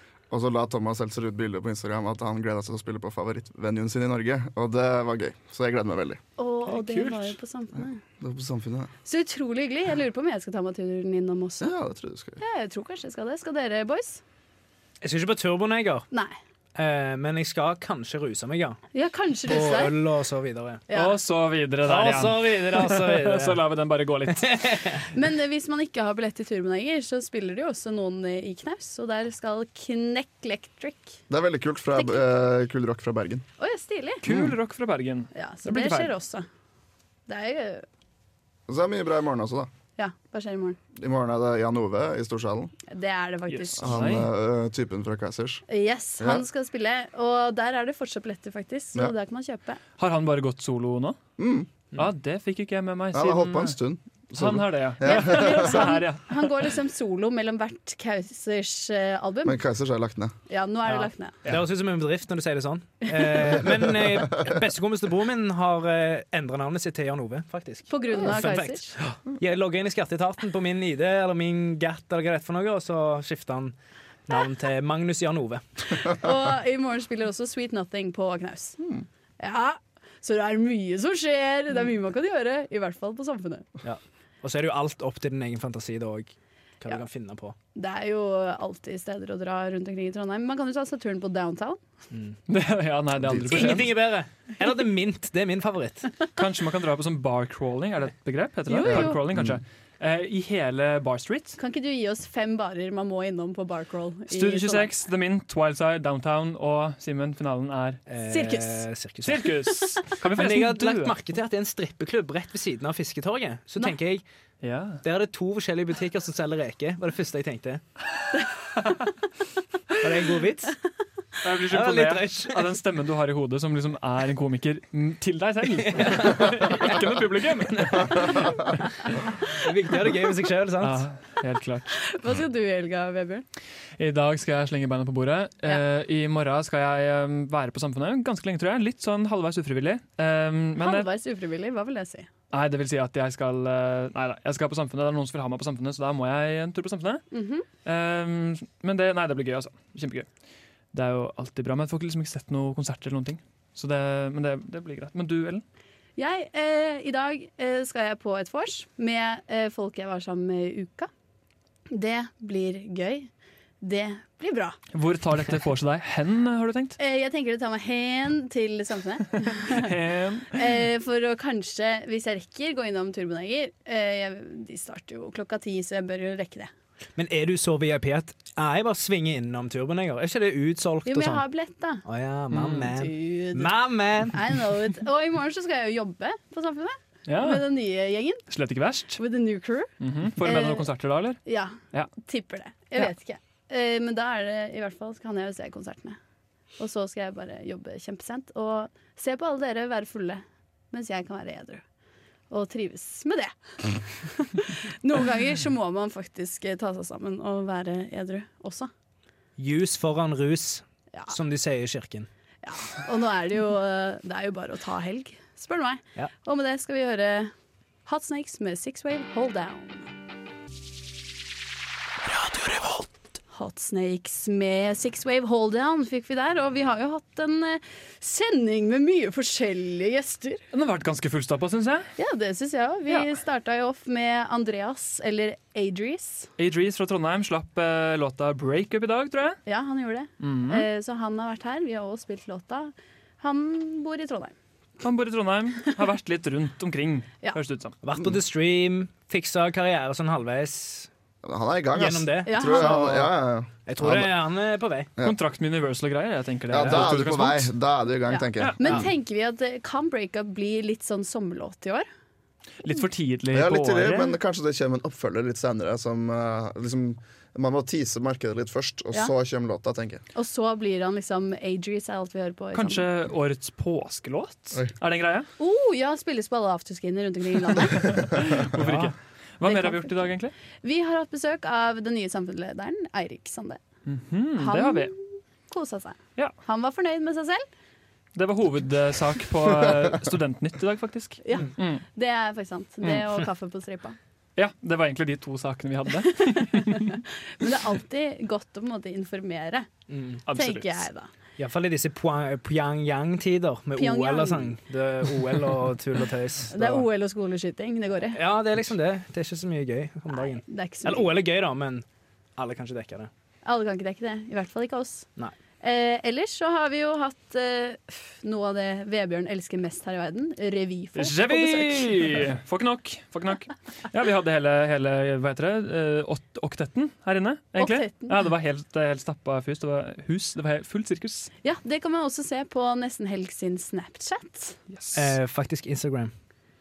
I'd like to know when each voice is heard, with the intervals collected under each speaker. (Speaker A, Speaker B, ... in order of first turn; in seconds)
Speaker A: 0.3-6.2, 7.8-8.9, 11.6-12.4, 31.3-33.4, 34.3-34.5, 38.7-39.7, 41.0-42.7, 43.8-45.6, 46.2-46.5, 51.4-51.7, 53.1-55.9, 59.5-60.3, 93.3-93.5, 98.8-99.6, 251.4-254.3, 256.7-259.0, 263.5-270.2
Speaker B: 6.4-8.0, 9.1-11.7, 12.4-14.2, 16.1-16.4, 18.9-19.9, 20.9-21.1, 25.1-31.2, 31.9-32.2, 33.6-34.3, 35.3-36.5, 37.3-37.9, 40.0-40.8, 42.9-44.1, 45.7-49.8, 55.0-59.6, 60.5-61.4, 67.9-69.0, 76.2-78.8, 79.4-83.7, 87.8-91.8, 98.7-99.2, 101.6-104.9, 108.3-108.8, 132.0-133.4, 140.8-142.3, 147.3-147.7, 156.2-161.1, 161.9-163.3, 163.8-164.8, 167.0-169.9, 170.5-176.7, 181.1-182.1, 182.9-188.4, 189.2-189.9, 190.4-190.9, 191.4-196.2, 196.8-201.8, 202.5-208.9, 212.6-217.5, 218.1-220.1, 223.5-230.6, 232.2-236.5, 239.7-244.6, 252.5-253.1, 258.3-262.1, 270.4-273.1, 275.6-278.2, 279.6-280.3, 280.8-283.8, 284.6-287.6, 291.4-294.2, 296.5-299.9, 300.5-301.3, 304.0-304.8, 306.7-308.4, 310.3-311.3, 313.6-315.3, 315.8-322.4, 327.8-328.4, 331.6-334.8
Speaker C: 6.7-7.4, 15.0-16.1, 16.8-18.8, 19.5-20.9, 21.9-23.6, 24.3-25.0, 60.9-73.8, 74.3-75.6, 83.8-87.5, 92.1-92.4, 93.5-96.2, 108.1-109.5, 110.1-114.2, 115.0-117.8, 120.0-120.8, 121.7-122.7, 125.9-126.5, 129.6-131.0, 177.2-181.4, 182.1-184.6, 209.6-212.3, 222.5-223.0, 248.0-251.1, 251.9-255.1, 300.1-300.4, 301.6-307.1, 308.3-312.1, 312.6-313.3, 335.1-336.3
Speaker D: 20.9-24.5, 34.2-36.1, 43.5-44.3, 50.0-51.2, 52.0-53.8, 54.4-56.3, 92.5-94.0, 96.3-101.6, 104.3-108.0, 109.2-111.2, 114.6-115.0, 121.4-128.6, 130.8-131.9, 134.0-141.1, 142.5-147.2, 147.8-150.3, 150.9-155.6, 164.9-167.0, 169.6-170.6, 182.5-182.9, 187.3-187.7, 188.5-189.2, 190.0-191.4, 230.7-232.1, 236.6-239.6, 240.4-240.8, 245.0-248.0, 255.2-257.7, 262.8-264.4, 272.7-275.5, 278.3-280.5, 284.1-285.1, 288.4-292.0, 294.6-297.2, 300.5-301.0, 321.1-331.5, 334.9-335.3